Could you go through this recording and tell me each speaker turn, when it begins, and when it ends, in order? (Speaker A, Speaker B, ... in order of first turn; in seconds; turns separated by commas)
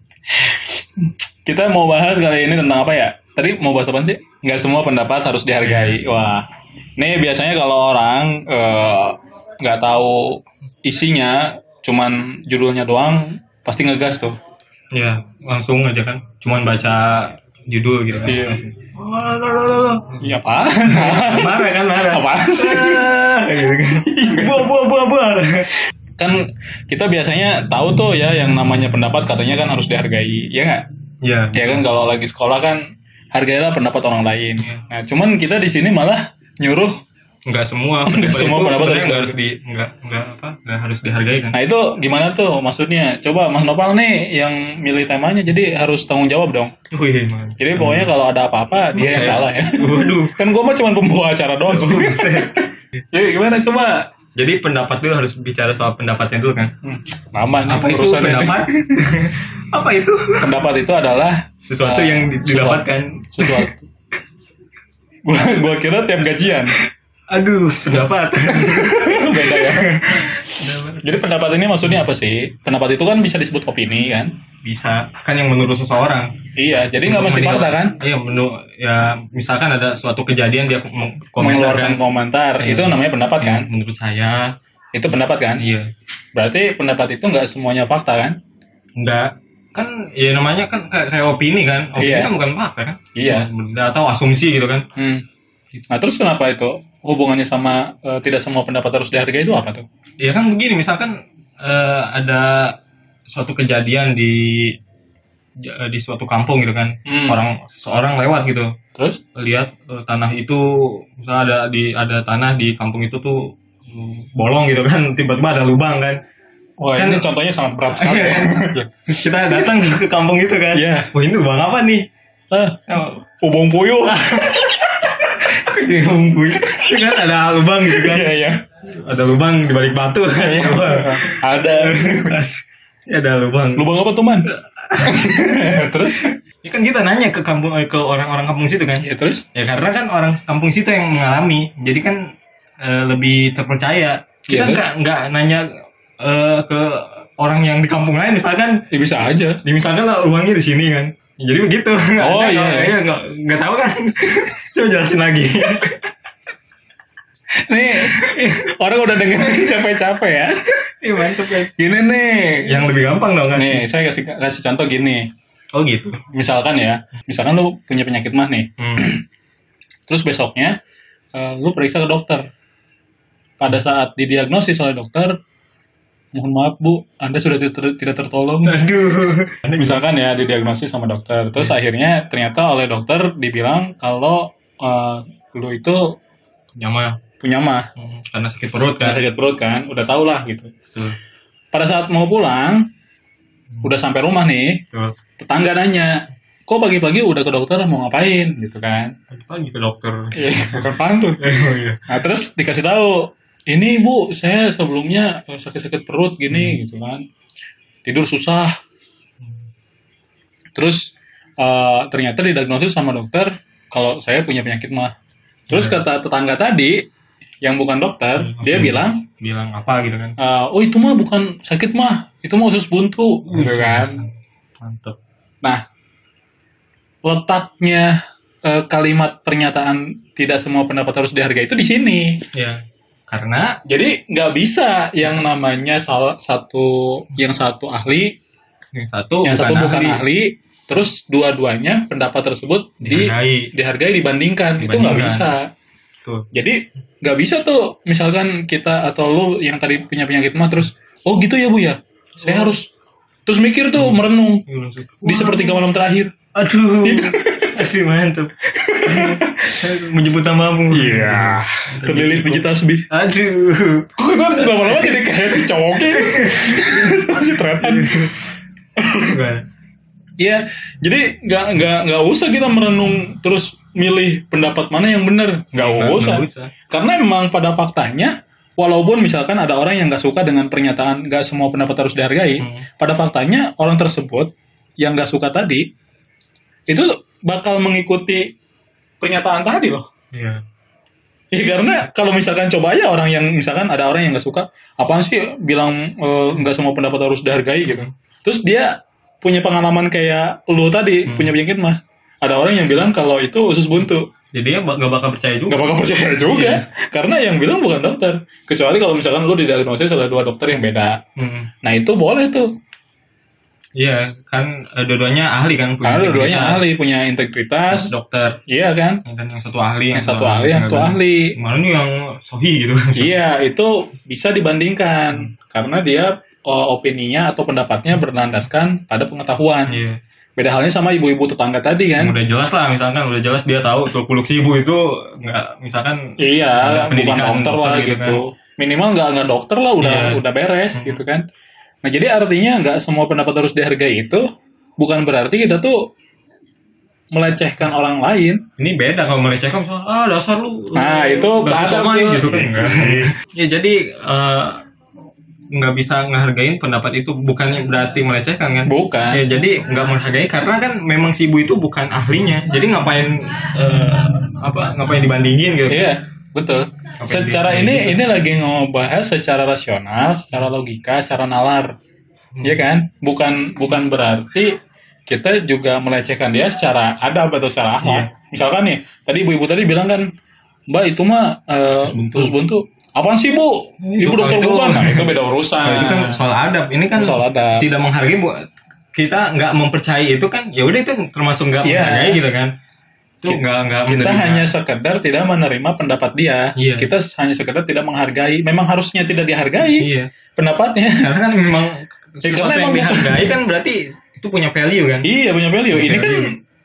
Speaker A: 0.3-6.5, Speaker B: 5.6-6.0, Speaker A: 7.0-14.3, Speaker B: 14.9-20.3, Speaker A: 18.2-18.6, Speaker A: 20.2-23.1, Speaker B: 20.8-25.7, Speaker A: 24.1-24.7, Speaker A: 26.2-30.8, Speaker B: 31.2-31.8, Speaker A: 31.5-32.8, Speaker A: 33.3-37.0, Speaker B: 34.6-34.8, Speaker B: 37.5-41.5, Speaker A: 38.0-39.3, Speaker A: 41.5-46.7, Speaker B: 46.9-48.1, Speaker A: 47.6-54.1, Speaker B: 48.9-50.4, Speaker B: 51.7-52.6, Speaker B: 54.4-56.7, Speaker A: 56.8-58.9, Speaker B: 57.7-60.5, Speaker A: 60.4-63.9, Speaker B: 61.6-63.7, Speaker A: 65.2-66.8, Speaker B: 67.3-71.2, Speaker A: 68.4-74.3, Speaker B: 74.6-76.3, Speaker A: 76.6-78.0, Speaker B: 77.0-82.0, Speaker A: 81.4-83.7, Speaker B: 82.6-84.5, Speaker A: 84.9-85.6, Speaker B: 85.6-85.9, Speaker A: 86.3-88.3, Speaker B: 89.0-94.8, Speaker A: 92.0-92.3, Speaker A: 93.1-93.5, Speaker A: 95.0-95.2, Speaker A: 95.9-99.8, Speaker B: 100.2-102.7, Speaker B: 103.3-104.7, Speaker B: 105.6-108.7, Speaker A: 107.0-107.4, Speaker A: 108.9-109.2, Speaker B: 109.3-116.2, Speaker A: 116.8-119.7, Speaker B: 117.0-117.2, Speaker B: 117.9-122.0, Speaker A: 120.7-121.1, Speaker A: 122.5-122.8, Speaker B: 122.9-123.2, Speaker A: 123.4-124.8, Speaker B: 124.0-124.8, Speaker B: 125.4-128.3, Speaker A: 126.7-127.0, Speaker A: 127.8-128.6, Speaker B: 128.9-133.9, Speaker A: 130.4-132.4, Speaker A: 133.8-134.5, Speaker B: 134.5-135.4, Speaker A: 135.0-136.3, Speaker B: 136.2-142.2, Speaker A: 139.0-139.4, Speaker B: 142.8-145.7, Speaker A: 144.5-144.9, Speaker B: 146.2-148.7, Speaker A: 148.9-149.6, Speaker B: 149.6-156.1, Speaker A: 152.2-152.9, Speaker A: 157.7-160.7, Speaker B: 158.1-158.4, Speaker B: 161.0-161.7, Speaker A: 161.5-162.8, Speaker B: 162.6-163.8, Speaker A: 163.5-165.3, Speaker B: 165.7-166.2, Speaker A: 166.3-169.2, Speaker B: 168.8-169.1, Speaker A: 170.1-170.7, Speaker A: 171.3-172.4, Speaker A: 173.6-175.3, Speaker A: 176.3-178.8, Speaker B: 178.6-180.0, Speaker A: 179.8-186.0, Speaker B: 186.8-187.1, Speaker A: 187.4-187.9, Speaker B: 187.9-189.2, Speaker A: 188.8-190.7, Speaker A: 191.7-192.8, Speaker A: 193.8-194.8, Speaker A: 195.4-199.1, Speaker B: 199.3-200.9, Speaker A: 200.3-207.2, Speaker B: 201.4-202.1, Speaker B: 206.5-206.8, Speaker A: 208.0-208.7, Speaker B: 209.4-209.7, Speaker A: 210.7-215.1, Speaker A: 215.7-217.0, Speaker B: 215.7-216.0, Speaker A: 217.6-219.2, Speaker B: 218.3-220.4, Speaker A: 220.4-224.2, Speaker B: 223.5-225.2, Speaker A: 227.2-228.1, Speaker A: 228.6-232.4, Speaker B: 232.5-232.8, Speaker B: 233.3-233.8, Speaker A: 233.9-238.3, Speaker B: 238.9-240.2, Speaker A: 239.4-245.7, Speaker B: 243.0-243.7, Speaker B: 244.8-245.5, Speaker A: 246.5-252.9, Speaker B: 252.4-252.8, Speaker A: 253.4-254.6, Speaker B: 253.9-255.8, Speaker A: 255.2-256.3, Speaker B: 256.5-265.2, Speaker A: 257.0-257.7, Speaker A: 258.8-259.8, Speaker A: 260.9-263.1, Speaker A: 264.2-268.3, Speaker B: 265.9-268.5, Speaker A: 269.0-269.3, Speaker B: 269.2-269.6, Speaker A: 270.4-285.8, Speaker B: 275.8-276.7, Speaker B: 282.6-282.9, Speaker A: 286.9-288.5, Speaker A: 289.2-290.1, Speaker B: 290.3-290.6, Speaker A: 291.5-304.2, Speaker B: 301.2-301.5, Speaker B: 304.5-306.8, Speaker A: 305.7-311.2, Speaker B: 311.4-311.7, Speaker A: 311.8-312.7, Speaker B: 314.0-316.8, Speaker A: 316.0-318.1, Speaker B: 317.9-318.6, Speaker A: 318.7-319.2, Speaker B: 319.2-323.4, Speaker A: 320.1-321.5, Speaker A: 323.1-330.0, Speaker B: 329.9-330.2, Speaker A: 330.6-332.3, Speaker B: 332.2-336.2, Speaker A: 336.4-341.4, Speaker B: 336.8-338.4, Speaker B: 340.0-340.4, Speaker B: 340.9-341.2, Speaker A: 342.0-344.4, Speaker A: 345.0-345.9, Speaker A: 347.3-348.6, Speaker B: 348.8-354.8, Speaker A: 350.9-353.3, Speaker B: 355.7-366.1, Speaker A: 358.9-359.4, Speaker A: 365.9-371.9, Speaker B: 367.2-368.2, Speaker B: 372.5-372.8, Speaker A: 372.6-374.7, Speaker A: 375.3-380.2, Speaker B: 378.0-378.3, Speaker A: 380.9-386.4, Speaker B: 381.9-382.5, Speaker B: 384.0-388.6, Speaker A: 387.1-387.8, Speaker B: 389.1-392.7, Speaker A: 391.8-392.4, Speaker B: 393.4-394.7, Speaker A: 393.4-401.3, Speaker B: 396.8-397.1, Speaker B: 399.8-400.3, Speaker B: 401.2-405.3, Speaker A: 402.4-403.5, Speaker A: 405.2-406.5, Speaker B: 405.9-406.5